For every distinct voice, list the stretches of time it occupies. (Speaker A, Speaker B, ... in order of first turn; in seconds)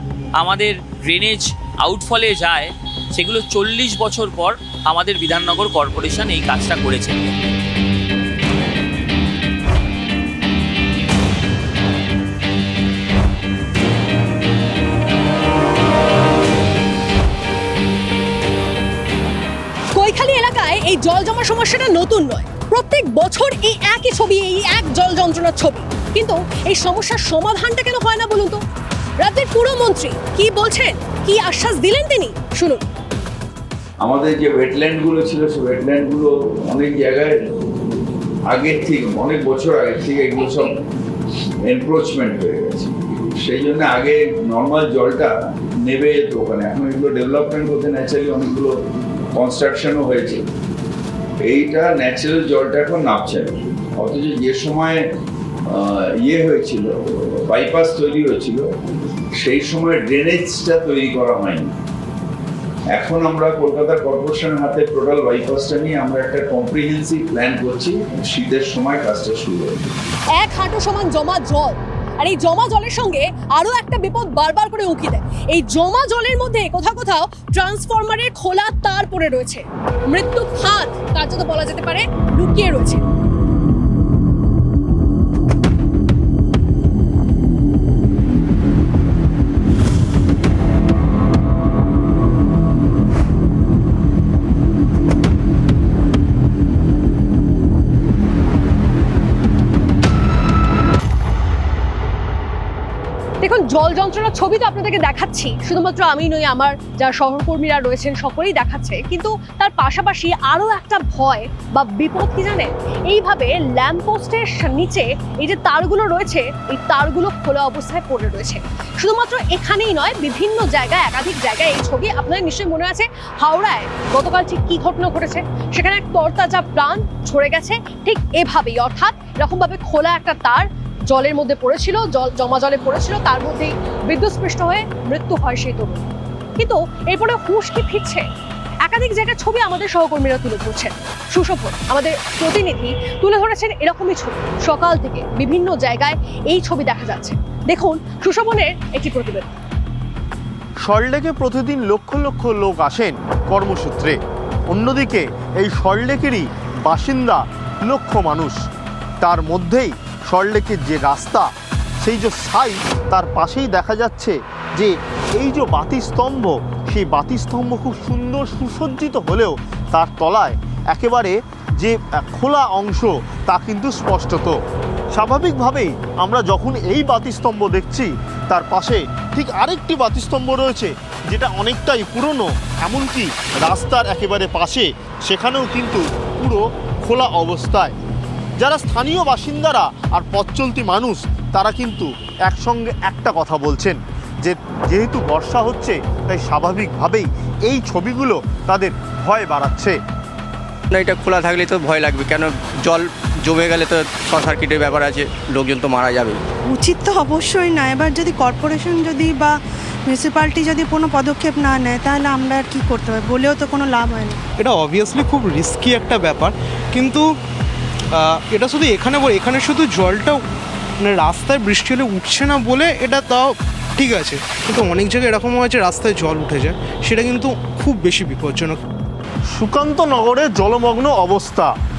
Speaker A: 0.4-7.3
Speaker B: 19.9-28.6, 29.2-32.8, 70.4-83.0, 103.4-138.2, 138.9-149.5
Speaker C: 34.0-37.3, 38.5-40.8, 41.7-45.3, 45.9-48.7, 49.4-50.4, 51.5-54.9, 56.2-58.7, 59.4-61.7, 62.9-69.8
Speaker D: 150.8-154.2, 154.7-158.6, 159.2-161.5, 162.0-174.5, 175.1-187.9, 188.6-200.0, 229.5-231.7
Speaker E: 200.9-206.3
Speaker F: 206.7-209.5, 210.1-214.3
Speaker G: 214.6-217.2, 218.5-220.4, 221.0-228.8